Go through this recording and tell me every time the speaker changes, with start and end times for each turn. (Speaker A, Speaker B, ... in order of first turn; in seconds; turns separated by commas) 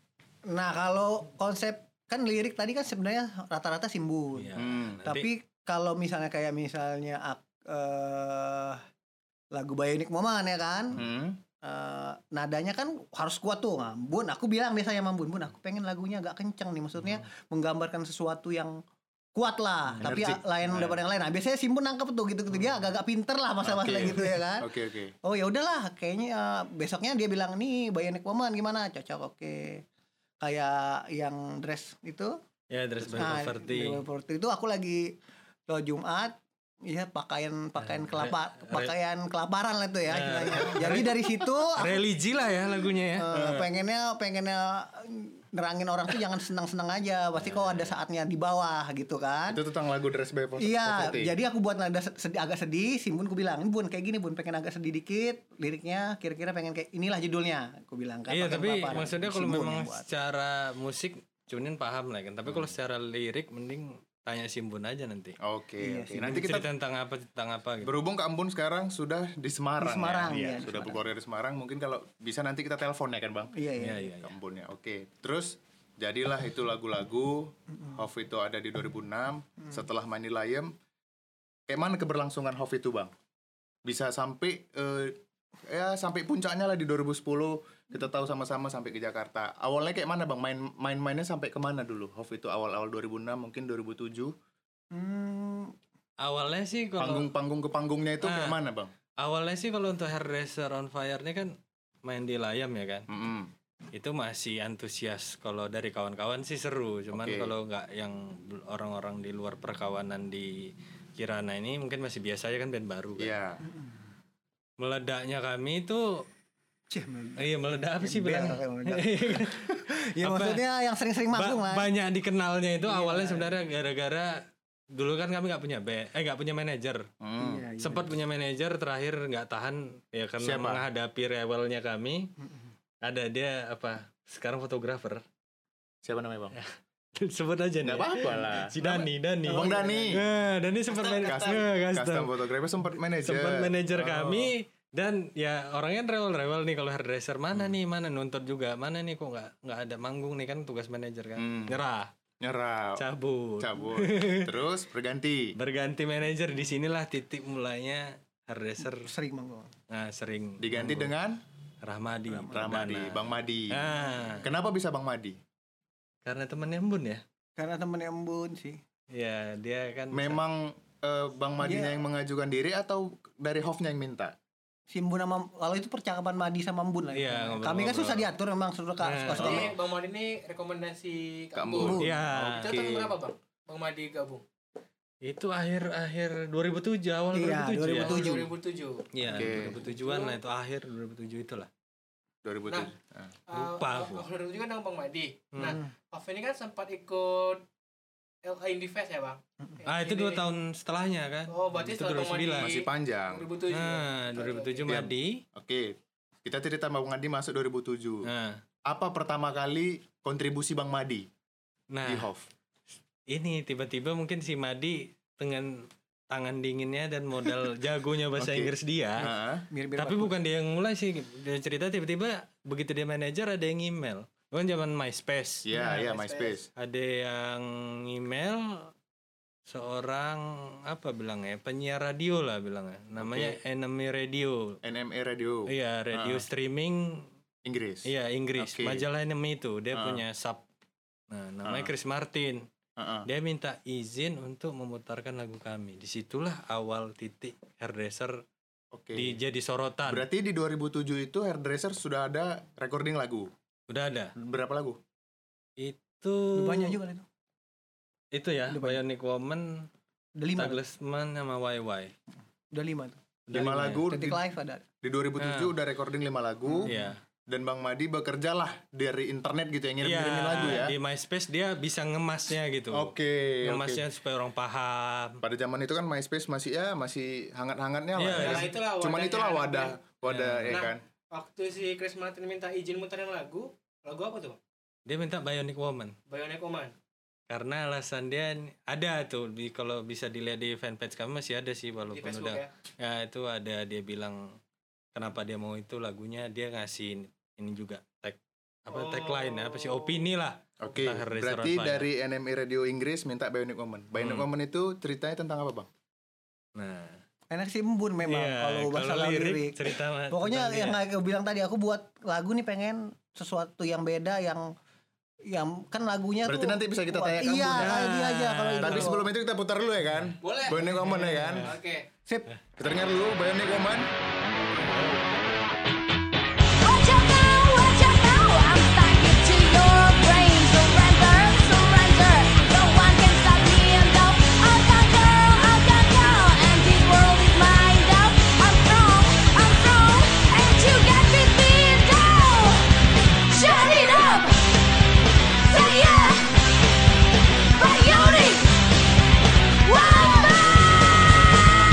Speaker A: 0.5-4.5, Speaker B: 4.3-5.3, Speaker C: 4.5-5.0, Speaker A: 5.0-8.8, Speaker A: 9.5-11.0, Speaker C: 10.9-11.4, Speaker A: 11.6-18.8, Speaker A: 19.4-24.7, Speaker C: 20.0-21.0, Speaker C: 23.6-25.1, Speaker A: 25.2-29.8, Speaker A: 30.4-32.4, Speaker B: 32.7-34.0, Speaker A: 33.1-35.1, Speaker A: 35.7-42.0, Speaker B: 37.8-38.9, Speaker B: 40.1-43.3, Speaker A: 43.2-49.6, Speaker C: 43.3-43.7, Speaker B: 47.4-47.9, Speaker C: 49.5-51.3, Speaker A: 50.6-60.0, Speaker B: 58.3-65.3, Speaker C: 62.5-62.7, Speaker C: 65.4-66.7, Speaker A: 65.8-66.5, Speaker B: 66.2-67.9, Speaker C: 67.8-73.5, Speaker A: 69.8-71.0, Speaker A: 73.5-74.0, Speaker B: 73.8-74.3, Speaker C: 74.2-80.7, Speaker C: 81.7-83.1, Speaker C: 83.8-94.3, Speaker A: 94.9-95.8, Speaker B: 96.2-97.3, Speaker C: 97.0-98.9, Speaker B: 98.2-98.6, Speaker B: 99.2-101.5, Speaker B: 102.0-103.1, Speaker C: 103.1-103.5, Speaker B: 103.9-113.3, Speaker C: 107.1-107.5, Speaker C: 113.2-113.6, Speaker B: 114.8-116.2, Speaker A: 116.9-121.9, Speaker B: 117.4-120.6, Speaker B: 121.3-124.3, Speaker A: 122.8-123.5, Speaker B: 124.9-127.1, Speaker C: 127.2-127.7, Speaker A: 127.4-128.1, Speaker B: 127.8-132.3, Speaker C: 130.4-130.8, Speaker B: 133.0-135.2, Speaker C: 136.0-136.6, Speaker B: 136.5-142.3, Speaker C: 137.8-138.8, Speaker A: 138.8-140.2, Speaker C: 139.4-140.2, Speaker C: 140.9-144.5, Speaker B: 143.2-152.1, Speaker C: 151.4-151.8, Speaker C: 152.4-153.0, Speaker B: 153.0-154.5, Speaker C: 153.6-155.6, Speaker B: 155.6-159.1, Speaker A: 158.9-159.7, Speaker B: 159.9-161.1, Speaker C: 160.6-161.4, Speaker B: 161.8-164.5, Speaker A: 162.3-162.7, Speaker C: 162.5-163.8, Speaker C: 164.4-165.4, Speaker B: 166.2-167.2, Speaker A: 167.6-168.8, Speaker B: 169.1-170.4, Speaker C: 170.1-174.3, Speaker A: 171.6-171.9, Speaker A: 174.9-179.6, Speaker B: 177.1-178.3, Speaker B: 179.0-179.7, Speaker D: 179.3-184.4, Speaker C: 179.4-179.7, Speaker C: 181.5-183.1, Speaker A: 181.8-182.1, Speaker B: 182.0-182.8, Speaker B: 185.2-188.4, Speaker A: 187.3-188.5, Speaker D: 187.9-189.1, Speaker B: 189.1-191.7, Speaker C: 189.3-189.8, Speaker D: 189.9-190.4, Speaker C: 192.4-193.3, Speaker D: 193.5-197.6, Speaker B: 193.5-194.3, Speaker B: 195.5-195.8, Speaker A: 195.6-195.9, Speaker D: 198.4-200.4, Speaker B: 199.8-202.8, Speaker D: 201.5-204.9, Speaker C: 202.6-203.5, Speaker B: 203.7-205.4, Speaker C: 204.8-208.3, Speaker B: 208.2-208.6, Speaker C: 208.8-211.3, Speaker B: 211.9-212.3, Speaker C: 212.0-212.5, Speaker B: 213.3-219.3, Speaker C: 218.4-219.7, Speaker A: 219.7-220.3, Speaker B: 220.0-225.7, Speaker C: 225.6-226.7, Speaker D: 225.7-226.6, Speaker B: 226.8-228.9, Speaker B: 229.7-234.8, Speaker C: 233.2-233.6, Speaker C: 234.8-236.4, Speaker B: 235.7-237.2, Speaker C: 237.6-239.0, Speaker B: 238.1-240.6, Speaker C: 239.9-240.2, Speaker B: 241.3-242.6, Speaker C: 241.6-241.9, Speaker C: 243.0-243.3, Speaker B: 243.2-248.4, Speaker C: 248.9-249.4, Speaker B: 249.1-250.2, Speaker C: 250.1-253.5, Speaker B: 253.9-254.3, Speaker C: 254.3-255.0, Speaker B: 255.8-257.0, Speaker A: 256.5-257.2, Speaker B: 258.3-259.9, Speaker A: 258.7-259.0, Speaker A: 260.4-260.8, Speaker B: 260.6-262.1, Speaker A: 262.7-263.2, Speaker B: 263.5-264.1, Speaker C: 263.5-264.4, Speaker A: 264.1-264.8, Speaker C: 265.0-266.9, Speaker B: 265.4-265.7, Speaker A: 266.6-267.1, Speaker B: 266.8-267.2, Speaker C: 267.5-270.9, Speaker B: 270.0-275.4, Speaker C: 272.9-274.0, Speaker C: 275.4-281.0, Speaker B: 278.2-278.7, Speaker D: 278.3-280.0, Speaker B: 280.2-280.9, Speaker D: 280.7-284.6, Speaker B: 285.1-286.1, Speaker D: 286.3-286.9, Speaker B: 287.5-294.5, Speaker D: 292.1-292.7, Speaker B: 295.1-302.1, Speaker D: 298.9-300.2, Speaker C: 300.8-305.9, Speaker B: 304.1-304.5, Speaker B: 306.8-307.2, Speaker A: 307.5-314.7, Speaker B: 308.3-311.0, Speaker A: 315.4-319.2, Speaker C: 316.4-318.0, Speaker B: 317.7-319.1, Speaker C: 318.8-321.7, Speaker B: 320.2-321.7, Speaker D: 320.4-321.0, Speaker D: 321.6-322.1, Speaker C: 322.8-324.1, Speaker B: 324.8-325.3, Speaker E: 326.8-342.8, Speaker E: 343.5-344.6, Speaker E: 345.7-346.5, Speaker E: 347.8-348.7, Speaker E: 349.8-351.0